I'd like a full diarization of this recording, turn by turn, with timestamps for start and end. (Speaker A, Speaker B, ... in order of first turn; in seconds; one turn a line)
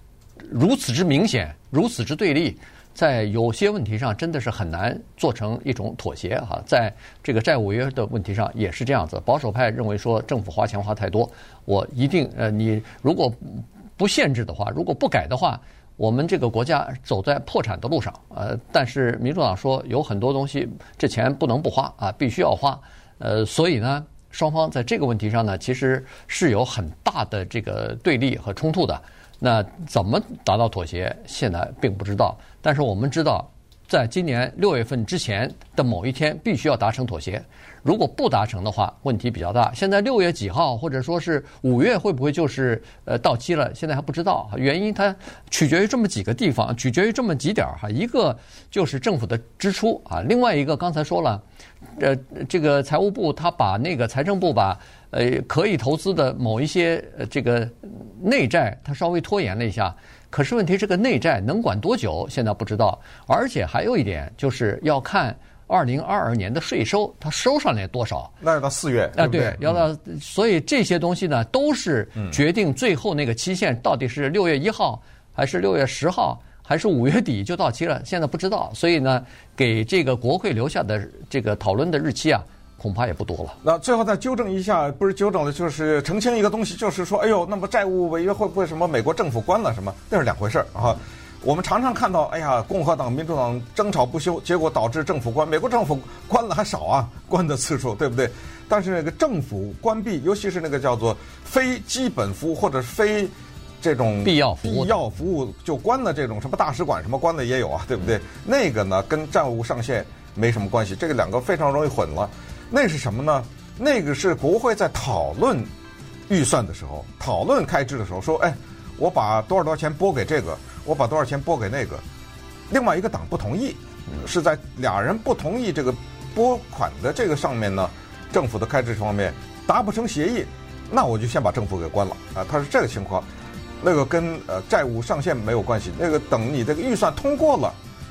Speaker A: 0.4-51.4
Speaker A: 52.0-68.3
Speaker B: 68.4-69.8
Speaker A: 69.2-83.6
Speaker B: 83.6-115.7
Speaker A: 104.2-105.0
Speaker B: 116.3-122.0
Speaker B: 122.7-133.3
Speaker B: 133.8-137.8